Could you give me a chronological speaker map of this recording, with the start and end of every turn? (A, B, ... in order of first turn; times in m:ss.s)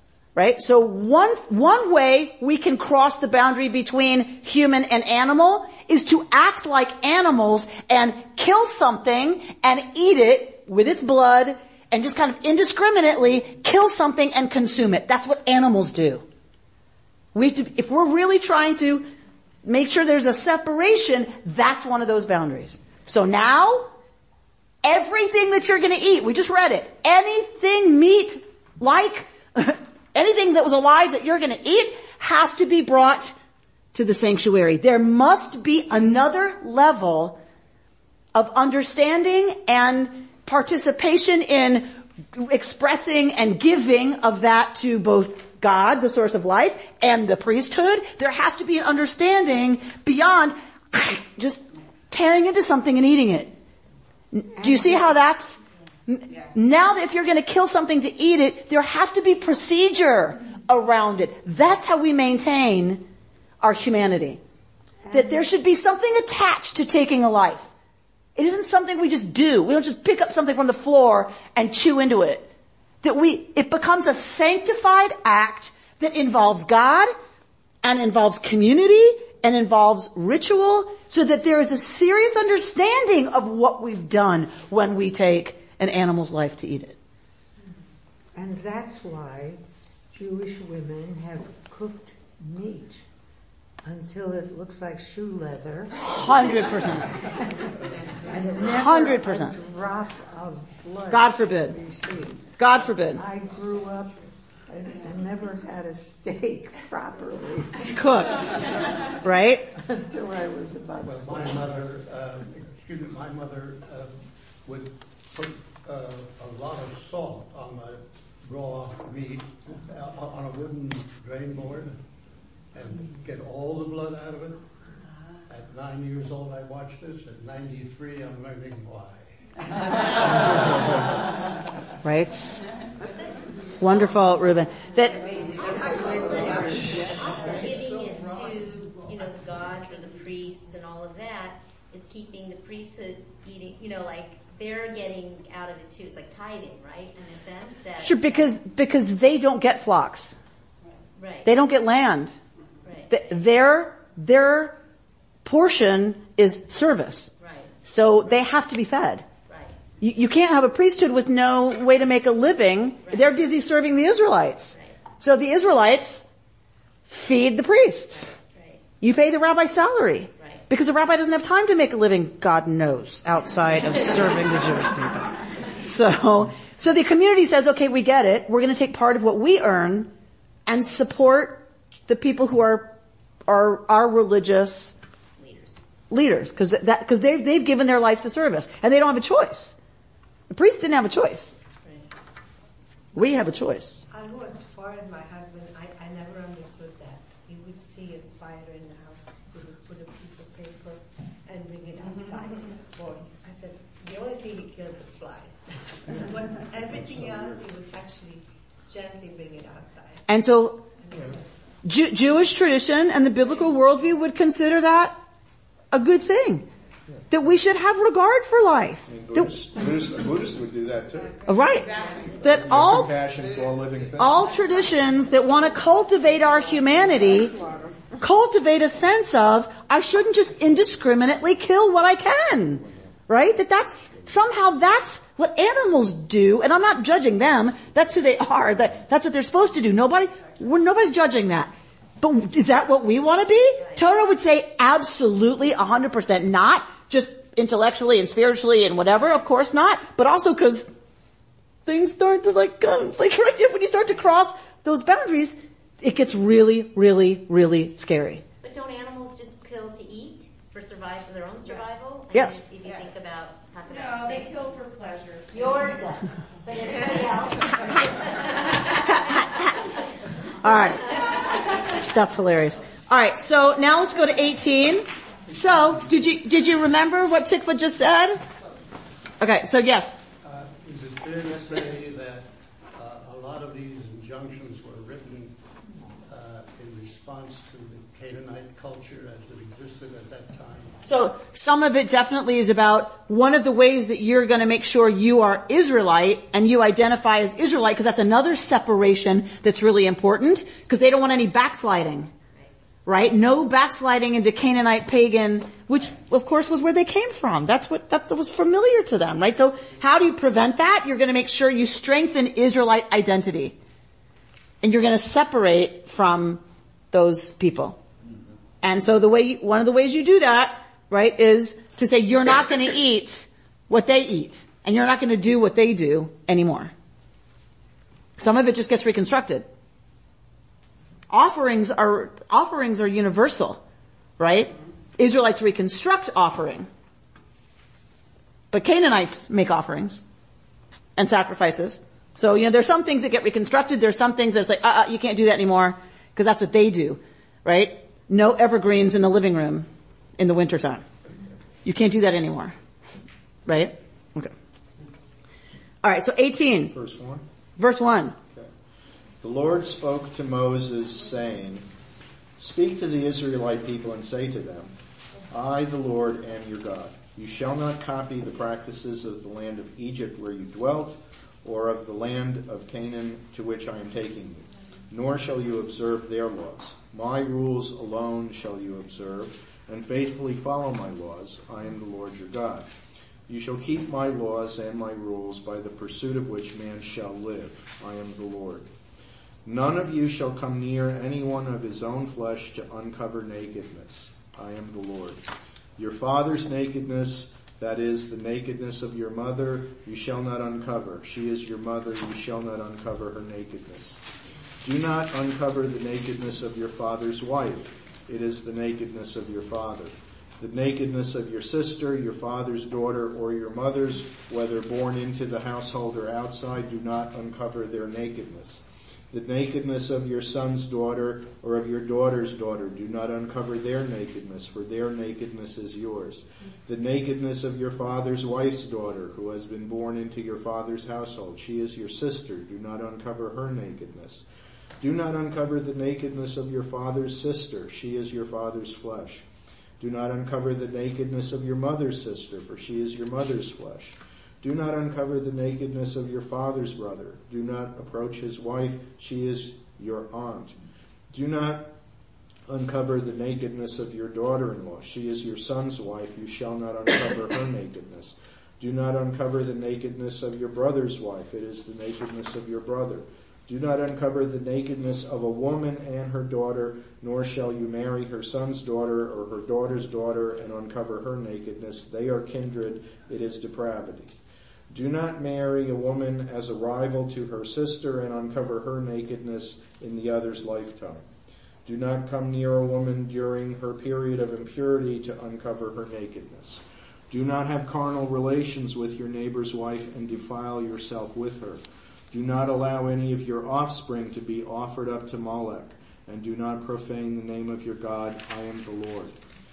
0:00.4-0:16.2 A
0:17.3-0:19.1 A
0:19.6-0:23.9 A
0:24.8-0:33.3 A
0:33.9-0:37.4 A
0:38.3-0:53.5 A
0:54.3-1:03.0 A
1:03.6-1:04.4 A
1:05.1-1:07.7 A
1:08.4-1:12.5 A
1:13.0-1:17.1 A
1:17.8-1:27.0 A
1:28.3-1:29.6 B
1:30.1-1:33.0 B
1:33.8-1:37.5 B
1:36.0-1:37.1 A
1:38.2-1:42.5 B
1:38.7-1:39.5 A
1:41.1-1:41.8 A
1:42.6-1:43.2 A
1:43.1-1:48.7 B
1:47.9-1:48.6 A
1:49.2-1:49.7 A
1:49.8-1:51.7 B
1:51.0-2:02.0 C
2:02.7-2:04.6 C
2:05.5-2:11.0 C
2:12.0-2:12.6 A
2:13.8-2:15.2 A
2:15.2-2:18.0 D
2:15.4-2:28.6 E
2:28.0-2:30.3 A
2:31.2-2:31.5 E
2:31.4-2:32.3 A
2:32.8-2:33.2 E
2:33.1-2:34.8 A
2:35.4-2:37.3 A
2:37.4-2:37.7 E
2:37.8-2:39.2 A
2:39.5-2:39.7 E
2:40.0-2:46.2 A
2:43.0-2:43.3 E
2:47.1-2:48.2 A
2:48.5-2:48.8 E
2:49.0-3:00.1 A
3:00.7-3:02.9 A
3:03.5-3:04.9 A
3:05.4-3:05.7 E
3:06.1-3:09.7 A
3:10.5-3:11.5 A
3:13.2-3:14.0 A
3:14.1-3:30.2 D
3:30.3-3:30.8 A
3:31.0-3:31.6 D
3:31.8-3:35.2 A
3:35.9-3:36.7 A
3:37.3-3:39.5 A
3:39.0-3:41.4 F
3:41.5-3:43.1 A
3:41.6-3:42.6 G
3:42.5-3:44.6 F
3:44.2-3:47.6 A
3:48.2-4:10.9 A
4:11.8-4:18.4 A
4:18.6-4:24.7 E
4:22.3-4:22.6 A
4:22.8-4:23.1 G
4:23.8-4:26.1 G
4:25.5-4:29.5 E
4:30.6-4:31.3 A
4:31.9-4:38.4 A
4:39.4-4:40.2 A
4:40.4-4:45.6 C
4:46.2-4:51.0 C
4:51.0-5:02.3 A
5:03.0-5:13.8 A
5:14.8-5:18.0 A
5:18.8-5:26.9 A
5:28.4-5:29.6 A
5:31.3-5:33.8 A
5:34.4-5:36.9 A
5:38.7-5:40.2 A
5:41.2-5:49.9 A
5:50.4-5:51.0 A
5:51.8-5:52.7 A
5:53.7-5:54.5 A
5:56.0-5:56.9 A
5:56.9-5:57.4 F
5:57.8-5:58.4 A
5:59.4-6:01.9 F
6:02.6-6:04.9 F
6:05.5-6:22.9 F
6:23.5-6:28.9 F
6:29.6-6:35.4 F
6:36.0-6:44.2 F
6:44.8-7:14.4 F
7:15.0-7:19.4 F
7:20.0-7:30.7 F
7:31.3-7:31.9 F
7:32.7-7:54.3 F
7:54.9-8:01.3 F
8:01.8-8:19.4 F